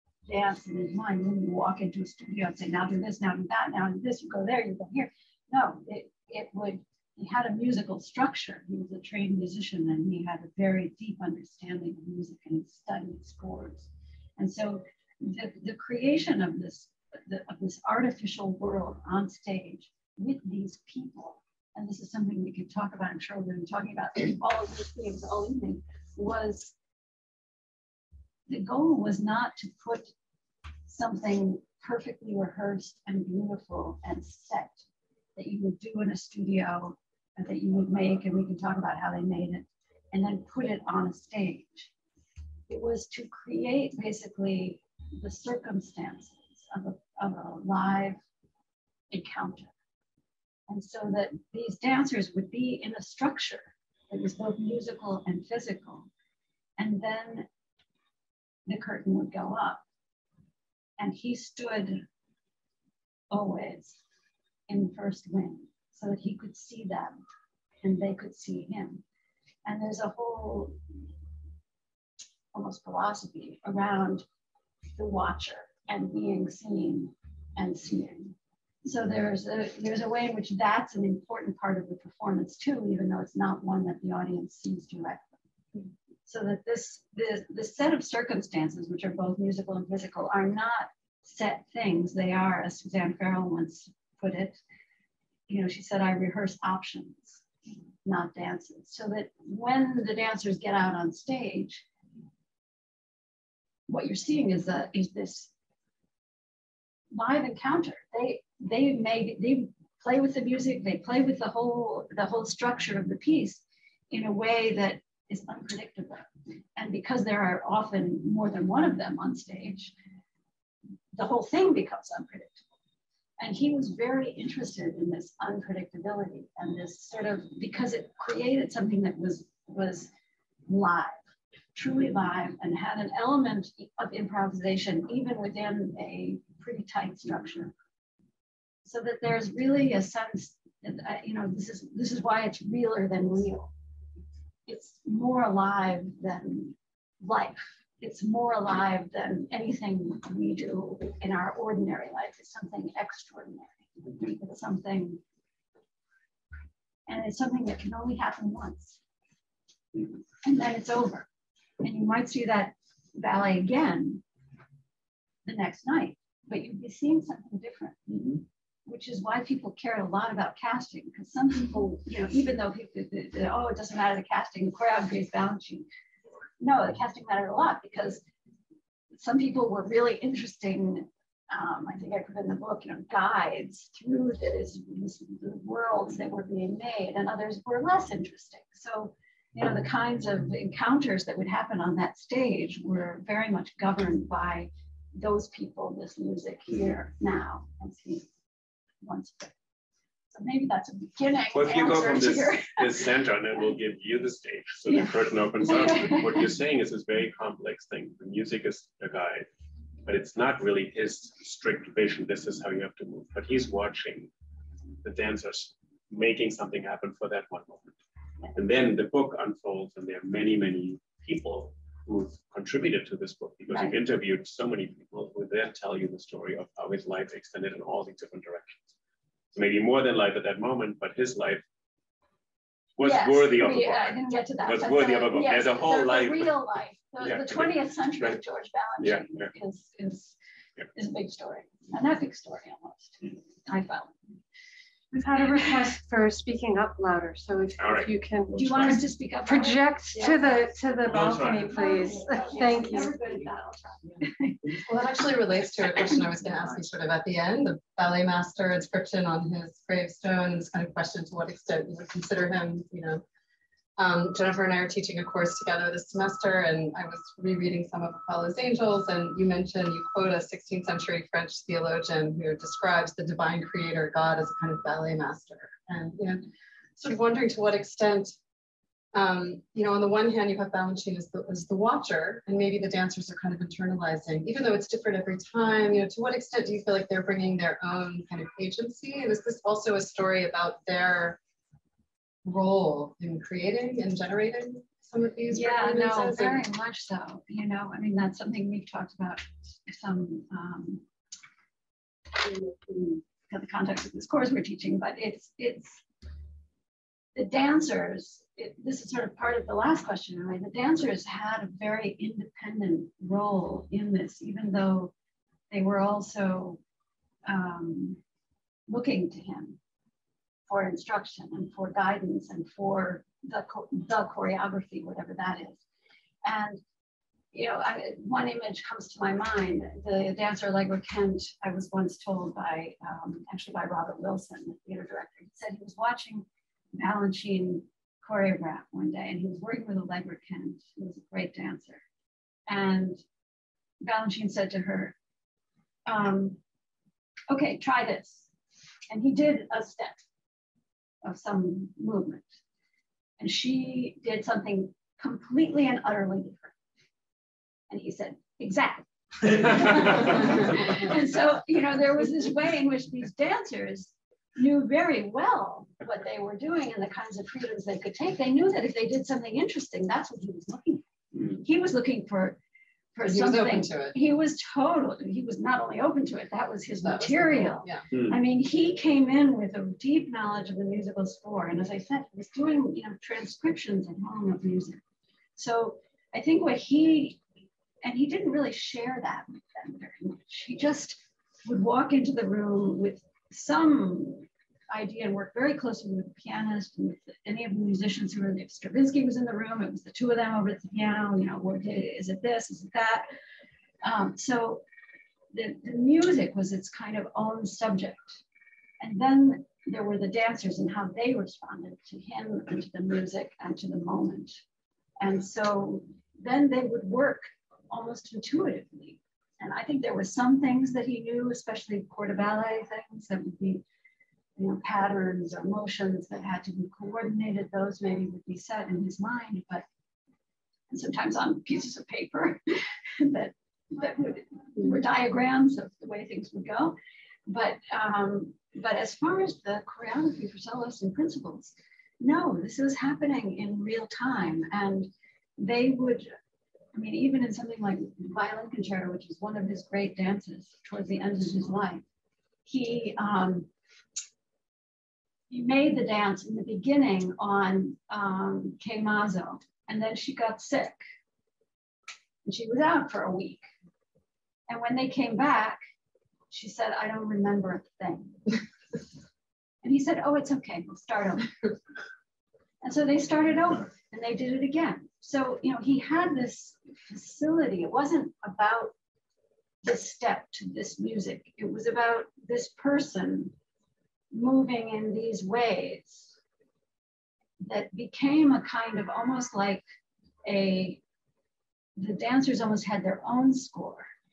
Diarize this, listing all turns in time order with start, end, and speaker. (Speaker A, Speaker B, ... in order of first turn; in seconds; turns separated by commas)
Speaker A: 0.2-26.7, Speaker A: 28.5-30.1, Speaker A: 30.9-34.9, Speaker A: 35.4-41.9, Speaker A: 42.7-48.2, Speaker A: 49.1-49.7, Speaker A: 50.7-56.1, Speaker A: 56.8-57.5, Speaker A: 58.7-59.8, Speaker A: 61.0-62.0, Speaker A: 63.3-64.0, Speaker A: 64.7-67.2, Speaker A: 67.8-69.0, Speaker A: 69.7-70.8, Speaker A: 72.5-74.3, Speaker A: 74.9-85.3, Speaker A: 86.3-94.6, Speaker A: 95.5-97.4, Speaker A: 98.0-101.8, Speaker A: 103.9-105.5, Speaker A: 107.1-119.9, Speaker A: 121.1-122.6, Speaker A: 123.4-130.1, Speaker A: 130.7-131.2, Speaker A: 131.8-137.7, Speaker A: 138.8-143.7, Speaker A: 144.7-155.2, Speaker A: 157.1-159.0, Speaker A: 160.4-161.3, Speaker A: 161.8-164.2, Speaker A: 165.4-175.9, Speaker A: 176.6-178.2, Speaker A: 179.1-198.3, Speaker A: 199.0-199.5, Speaker A: 200.3-203.1, Speaker B: 201.5-209.5, Speaker A: 204.9-206.5, Speaker B: 210.1-214.3, Speaker B: 215.0-217.9, Speaker B: 218.6-228.9, Speaker A: 223.7-224.0, Speaker B: 229.5-231.6, Speaker B: 233.0-236.6, Speaker A: 233.0-240.4, Speaker B: 237.2-238.4, Speaker B: 239.0-239.5, Speaker A: 240.9-244.2, Speaker C: 245.1-253.2, Speaker B: 247.8-248.1, Speaker A: 248.5-254.8, Speaker B: 251.1-251.8, Speaker D: 254.9-263.2, Speaker A: 256.1-256.4, Speaker D: 264.0-276.5, Speaker D: 277.0-278.4, Speaker D: 279.1-291.4, Speaker D: 292.4-296.6, Speaker A: 295.5-301.0, Speaker A: 302.4-306.0, Speaker A: 307.4-315.1, Speaker A: 315.7-316.8, Speaker A: 317.4-318.2, Speaker A: 318.9-319.8, Speaker A: 320.7-325.8, Speaker A: 326.4-326.8, Speaker A: 327.5-342.0, Speaker A: 342.7-343.2, Speaker A: 344.0-345.1, Speaker A: 346.1-346.6, Speaker A: 347.5-348.5, Speaker A: 349.1-350.2, Speaker A: 351.2-352.5, Speaker A: 353.4-356.8, Speaker A: 357.9-372.6, Speaker A: 373.1-385.0, Speaker D: 373.3-374.2, Speaker D: 377.0-378.1, Speaker A: 385.6-387.4, Speaker A: 388.0-403.3, Speaker A: 404.0-404.8, Speaker A: 405.5-408.4, Speaker A: 409.0-414.6, Speaker A: 415.2-423.8, Speaker A: 424.6-429.9, Speaker A: 430.9-446.3, Speaker A: 446.9-452.0, Speaker A: 452.7-453.7, Speaker A: 455.5-461.0, Speaker A: 462.4-463.7, Speaker A: 464.7-465.8, Speaker A: 466.5-468.5, Speaker A: 469.8-471.7, Speaker A: 472.8-478.9, Speaker A: 479.8-483.5, Speaker A: 484.3-486.3, Speaker A: 487.6-489.8, Speaker A: 490.4-491.0, Speaker A: 492.0-494.1